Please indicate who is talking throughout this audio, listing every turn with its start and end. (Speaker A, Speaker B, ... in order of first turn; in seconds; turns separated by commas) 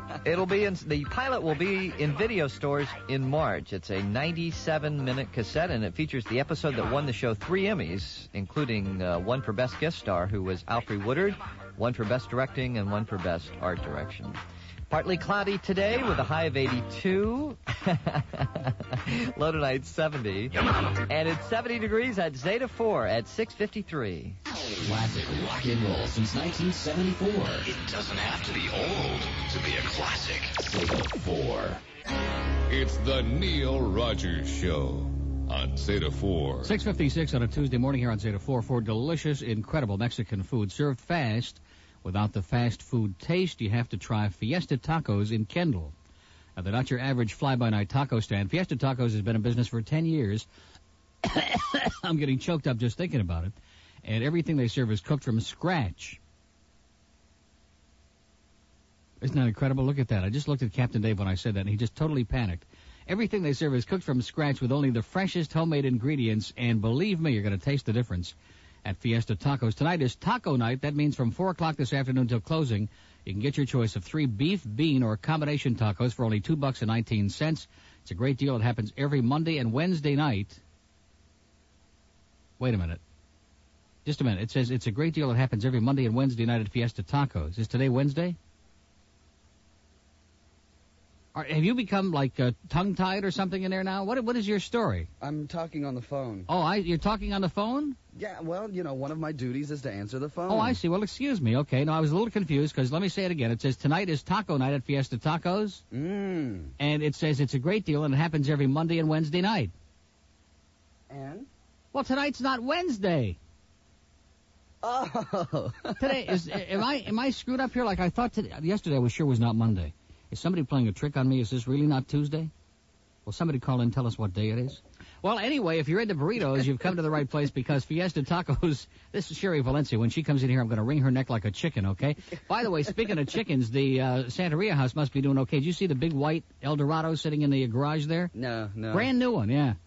Speaker A: 0.2-14.4, Speaker A: 14.9-20.5, Speaker A: 21.1-24.4, Speaker B: 24.8-31.8, Speaker C: 32.7-36.7, Speaker D: 36.6-45.9, Speaker D: 46.6-50.5, Speaker D: 51.2-56.2, Speaker D: 59.2-80.6, Speaker D: 82.6-83.0, Speaker D: 84.0-88.4, Speaker D: 91.3-95.1, Speaker E: 95.2-96.5, Speaker D: 96.5-98.0, Speaker E: 98.1-100.8, Speaker D: 100.5-105.8, Speaker E: 105.9-106.7, Speaker D: 106.8-109.7, Speaker E: 111.1-111.5, Speaker D: 111.9-113.4, Speaker E: 114.8-116.6, Speaker D: 116.0-122.5, Speaker D: 123.3-138.3, Speaker E: 138.3-139.1, Speaker D: 138.9-139.8